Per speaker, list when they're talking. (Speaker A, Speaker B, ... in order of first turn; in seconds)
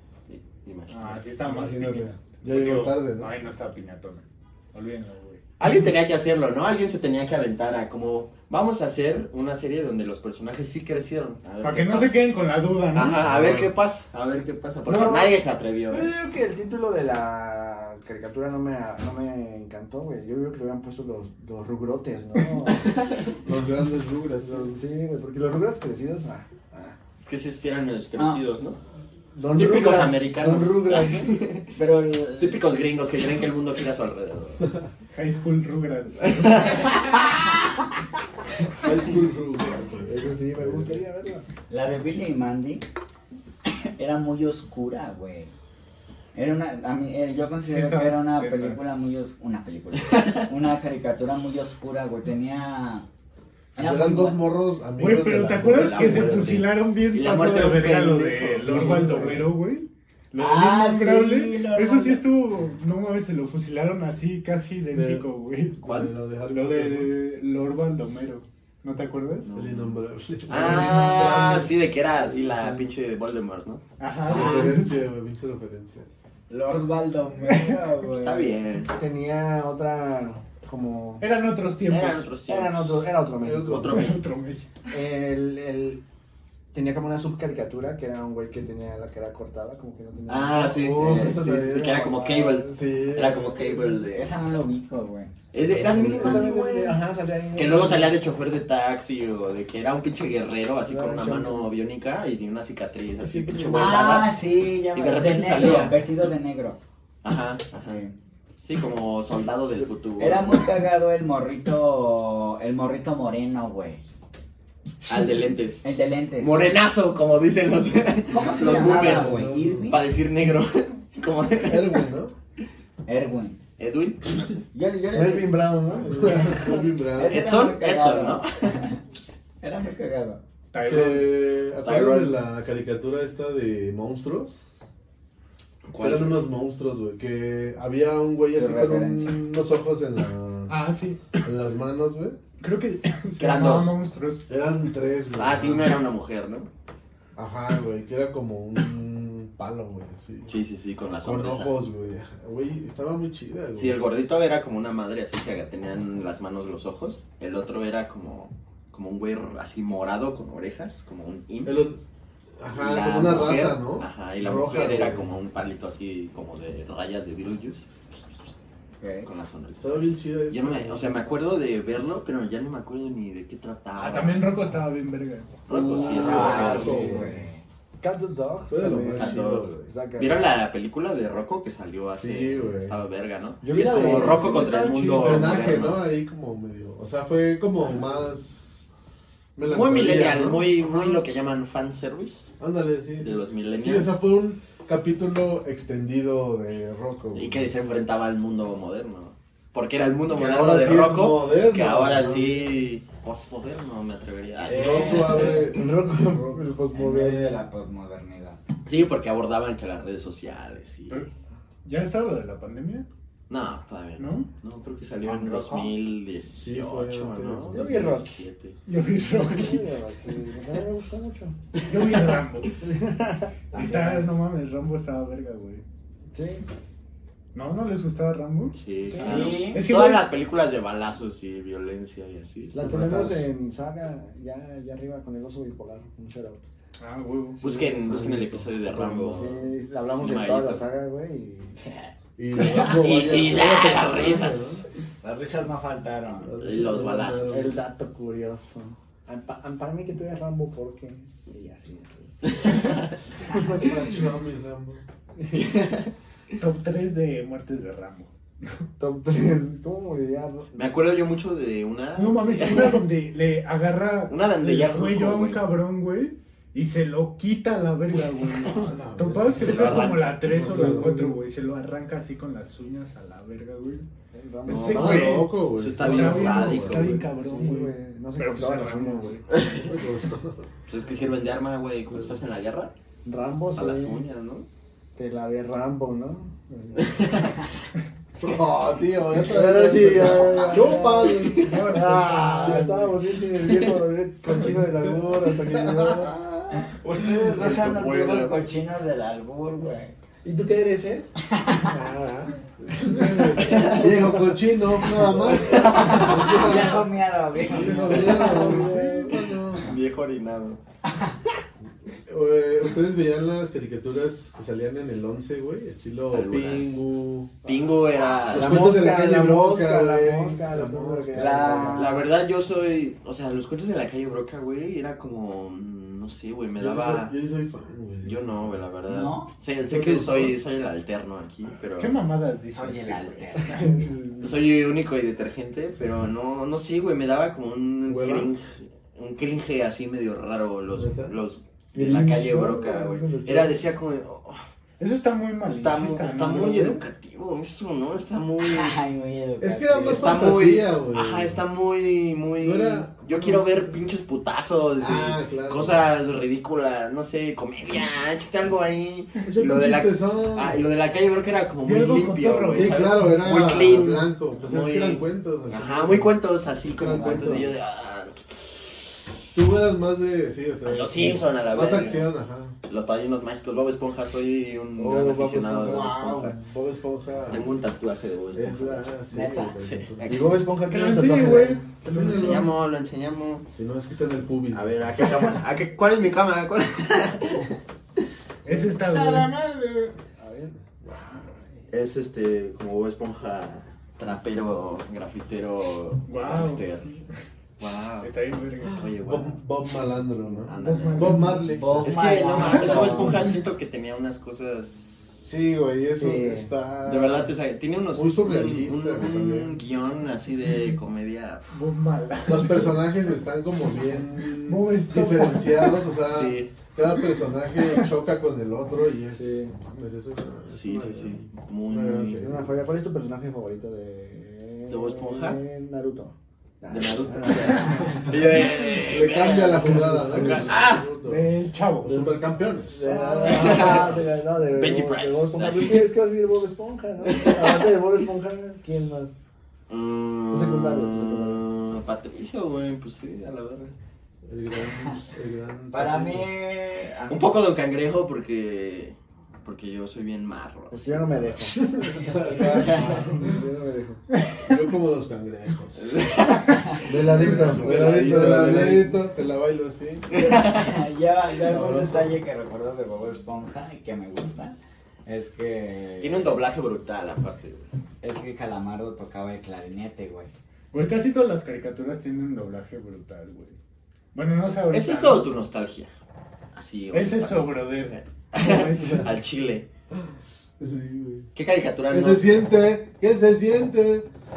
Speaker A: 0.3-1.2, 5.6-12.2, 12.9-16.1, 27.2-28.8, 29.5-31.8, 32.4-34.7, 36.2-37.3, 55.7-59.4, 65.8-66.1, 69.4-70.0, 70.5-73.8, 78.1-78.9, 81.9-83.1, 83.6-84.2, 90.3-94.4, 95.5-97.0, 97.5-104.4, 104.9-106.0, 107.2-108.0, 108.6-110.6, 115.0-115.9, 116.4-122.0, 123.8-124.6, 127.3-128.8, 131.8-132.3, 135.9-136.4, 143.4-143.9, 145.4-146.7, 150.5-151.8, 153.8-161.8, 162.7-168.5, 169.2-170.0, 170.5-174.5, 175.7-177.2, 179.2-186.1, 189.7-192.5, 193.2-194.2, 197.3-205.6, 208.9-211.2, 213.5-218.8, 228.7-232.8, 237.6-240.8, 242.6-244.8, 246.6-247.7, 252.5-253.1, 255.5-256.1, 260.8-263.0, 264.3-265.7, 269.6-270.7, 274.7-277.2, 279.5-279.9, 280.9-282.9, 283.7-284.7, 287.0-287.5, 297.2-298.6, 303.7-304.1, 305.5-306.7, 309.8-310.8, 316.3-317.0, 317.6-319.0, 321.9-327.3, 328.2-332.2, 334.4-344.6, 345.7-349.0, 350.1-368.4, 370.9-372.3, 372.8-376.6, 377.5-379.1, 379.8-380.6, 382.1-383.7, 384.7-387.7, 391.9-397.1, 397.8-398.3, 398.9-399.6, 400.6-405.5, 407.1-411.7, 416.2-416.7, 420.7-422.4, 424.9-425.6, 426.9-431.0, 433.4-436.1, 437.2-437.9, 439.9-443.9, 447.3-451.6, 452.7-453.1, 456.0-459.0, 460.3-460.9, 466.2-467.9, 474.9-476.1, 476.7-479.9, 481.6-482.6
Speaker B: 0.9-5.4, 11.6-13.7, 14.9-15.3, 35.1-37.1, 47.6-48.8, 55.0-69.5, 74.0-74.9, 81.2-82.3, 83.9-84.7, 130.7-131.3, 140.7-141.5, 142.6-144.5, 174.0-175.6, 183.8-185.9, 211.8-213.1, 214.2-214.5, 218.9-219.8, 221.9-222.8, 223.7-225.8, 227.5-230.3, 237.0-237.6, 256.6-258.9, 262.1-274.1, 274.7-279.5, 291.5-293.1, 332.0-333.5, 345.0-347.0, 361.9-363.7, 380.8-382.7, 388.6-390.1, 396.3-397.2, 398.2-399.1, 400.7-402.1, 402.7-403.3, 411.7-413.0, 414.6-416.0, 431.2-432.4, 470.9-473.8, 474.3-475.5, 477.1-479.4
Speaker C: 1.4-3.3, 23.4-24.8, 38.8-41.0, 53.8-56.7, 58.6-59.5, 64.9-65.3, 65.8-67.2, 69.5-72.8, 74.3-76.1, 83.4-84.0, 90.7-92.2, 92.7-93.5, 95.7-96.5, 118.5-120.0, 121.6-122.3, 126.1-127.5, 130.8-134.6, 136.0-140.9, 141.4-142.4, 144.5-146.0, 147.4-150.6, 151.2-154.0, 161.7-162.0, 162.6-165.3, 169.8-171.3, 176.1-177.4, 178.7-179.8, 182.2-183.0, 183.9-184.5, 185.1-188.8, 189.6-191.2, 192.6-197.7, 200.3-202.7, 204.7-206.7, 216.6-218.1, 232.8-233.5, 237.8-239.6, 242.4-244.8, 246.4-247.8, 253.7-255.0, 268.8-271.4, 274.9-277.2, 279.8-280.7, 282.1-282.4, 288.4-291.9, 294.6-296.4, 303.0-309.9, 312.1-317.5, 318.5-321.9, 326.8-328.8, 329.9-330.6, 338.0-338.5, 340.9-341.4, 349.6-351.6, 352.6-353.9, 355.0-356.1, 359.5-360.8, 362.7-367.7, 369.5-372.8, 375.8-377.8, 378.5-380.5, 382.0-382.7, 383.8-385.3, 391.0-391.4, 399.2-402.1, 405.4-407.5, 408.1-409.8, 412.5-422.7, 429.0-434.2, 444.5-446.5, 451.8-453.6, 454.6-456.4, 457.0-460.6, 461.6-462.4, 480.8-481.5, 482.1-484.3
Speaker D: 15.9-23.0, 24.4-27.0, 29.3-31.3, 40.1-41.5, 79.0-81.2, 82.5-84.1, 84.9-86.0, 86.7-93.8, 95.8-98.2, 100.8-101.7, 103.2-104.3, 125.1-126.9, 175.7-177.2, 178.0-180.5, 183.6-184.6, 204.8-207.7, 217.7-218.4, 219.2-221.6, 222.8-224.3, 226.3-226.7, 232.7-236.6, 239.3-241.8, 247.5-254.3, 255.4-255.8, 259.0-260.9, 274.3-275.3, 277.2-279.9, 283.2-284.2, 285.2-287.5, 289.4-296.7, 300.4-301.3, 301.8-304.3, 307.9-309.4, 318.4-322.1, 333.6-334.6, 341.9-343.9, 375.0-376.1, 380.3-381.9, 388.6-389.1, 390.4-391.8, 406.2-406.7, 419.3-419.7, 422.4-428.4, 429.6-430.8, 432.8-439.3, 440.5-441.6, 450.9-454.2, 457.1-459.1
Speaker E: 28.2-28.4, 31.8-32.6, 41.7-42.9, 43.7-45.5, 46.4-53.1, 53.8-54.4, 60.4-62.2, 76.5-78.6, 94.1-95.3, 103.7-106.8, 107.8-108.2, 110.2-114.0, 115.8-116.7, 118.3-120.0, 123.1-123.6, 124.7-125.8, 127.2-129.0, 129.6-130.4, 138.5-139.4, 169.0-169.3, 175.7-177.6, 204.9-205.5, 206.9-208.6, 215.5-215.8, 229.2-229.9, 245.2-246.5, 290.2-291.3, 296.7-300.1, 301.5-301.9, 305.9-308.9, 321.4-322.3, 329.1-329.5, 332.7-333.9, 348.6-350.5, 367.1-367.6, 379.3-379.8, 401.7-403.4, 445.9-447.5, 460.7-466.5, 468.2-470.5